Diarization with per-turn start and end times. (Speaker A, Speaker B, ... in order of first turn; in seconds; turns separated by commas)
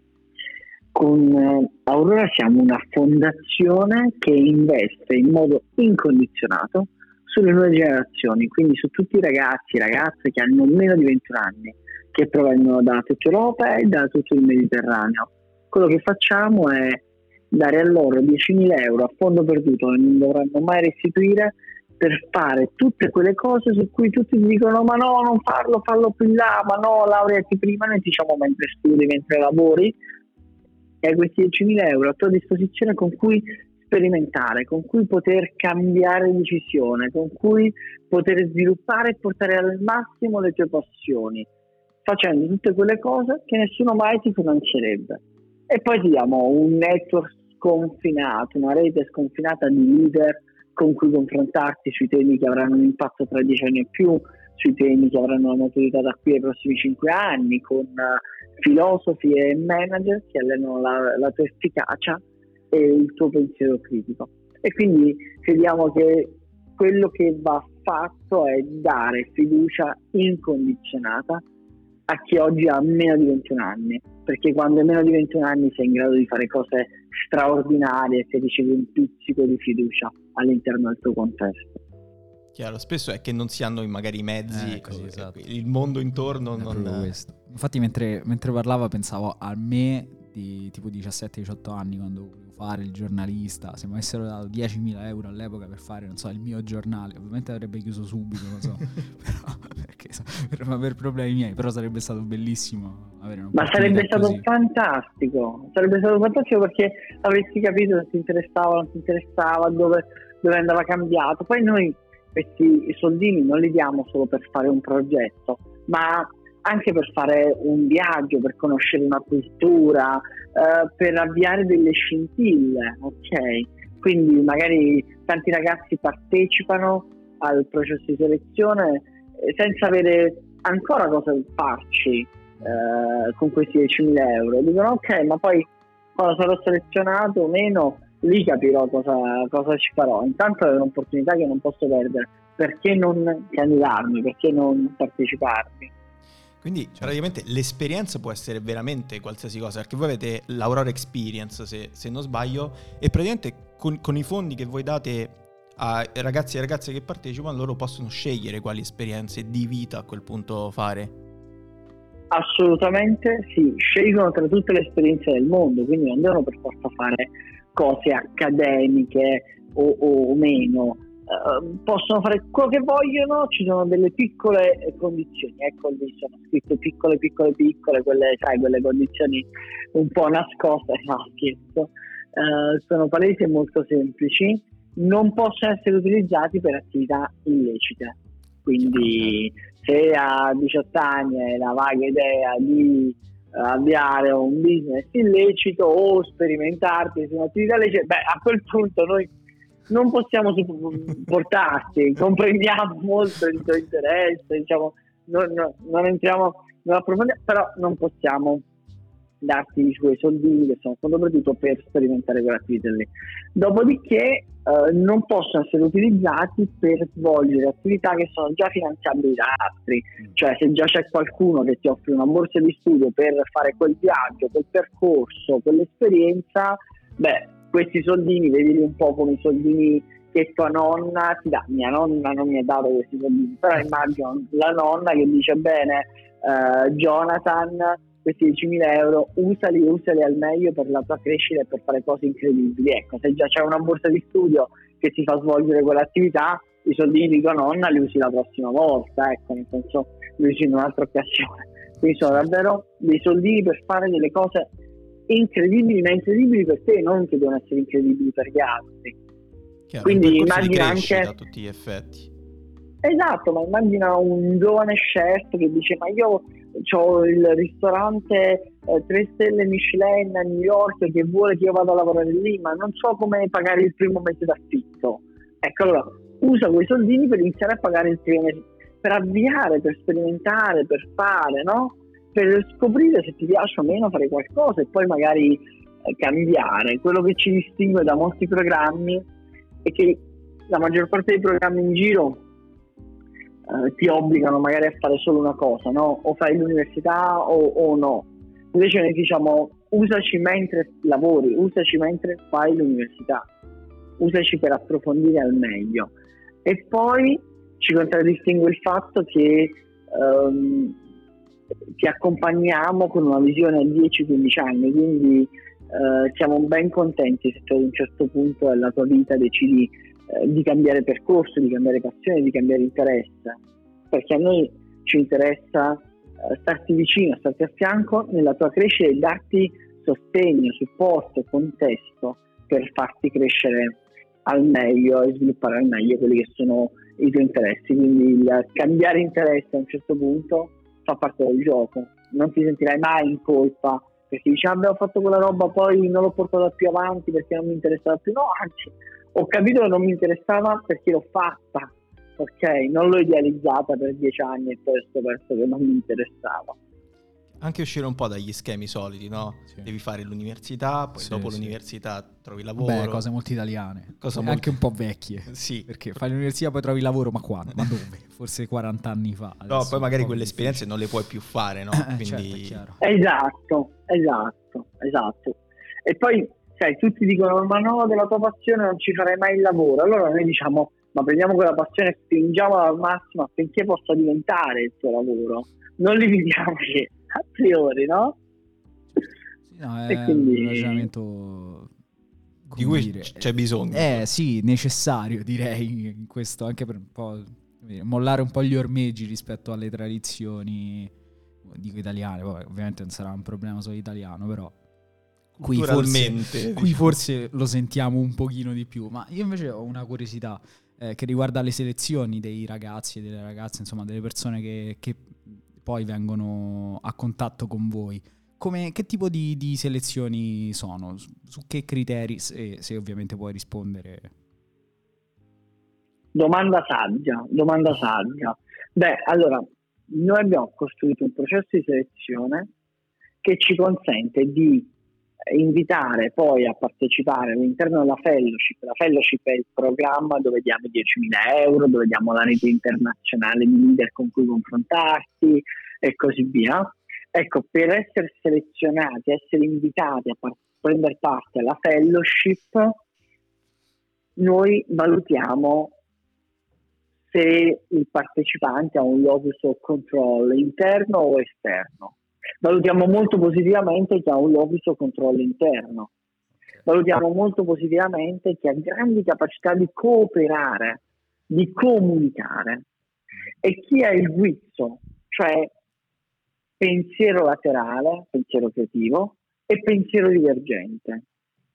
Speaker A: 0.9-30.0, Speaker A: 31.0-41.5, Speaker A: 42.0-71.4, Speaker A: 72.1-81.8, Speaker B: 82.5-87.1, Speaker C: 84.5-85.4, Speaker C: 86.6-104.4, Speaker A: 103.5-145.9, Speaker B: 146.6-161.1, Speaker A: 162.3-199.3, Speaker A: 199.9-208.6, Speaker A: 209.4-254.7, Speaker A: 255.3-259.1, Speaker B: 259.9-262.3, Speaker A: 260.0-261.3, Speaker A: 263.0-289.3, Speaker A: 289.8-292.4, Speaker A: 293.7-303.5, Speaker A: 304.2-306.1, Speaker A: 306.6-311.0, Speaker A: 312.0-323.6, Speaker A: 324.1-356.8, Speaker B: 357.6-363.2, Speaker C: 361.1-361.8, Speaker C: 362.8-370.8, Speaker B: 364.2-364.8, Speaker B: 365.5-366.2, Speaker B: 369.7-372.8, Speaker C: 371.9-373.0, Speaker A: 373.0-388.4, Speaker C: 389.7-391.9, Speaker A: 390.1-391.1, Speaker C: 392.6-401.1, Speaker B: 392.8-394.2, Speaker C: 401.6-404.8, Speaker B: 405.6-407.2, Speaker C: 405.6-424.3, Speaker A: 426.3-432.7, Speaker A: 433.4-434.9, Speaker A: 435.5-453.0, Speaker A: 454.4-455.9, Speaker A: 457.3-466.1, Speaker A: 466.9-472.9, Speaker A: 473.6-475.7, Speaker A: 476.8-481.2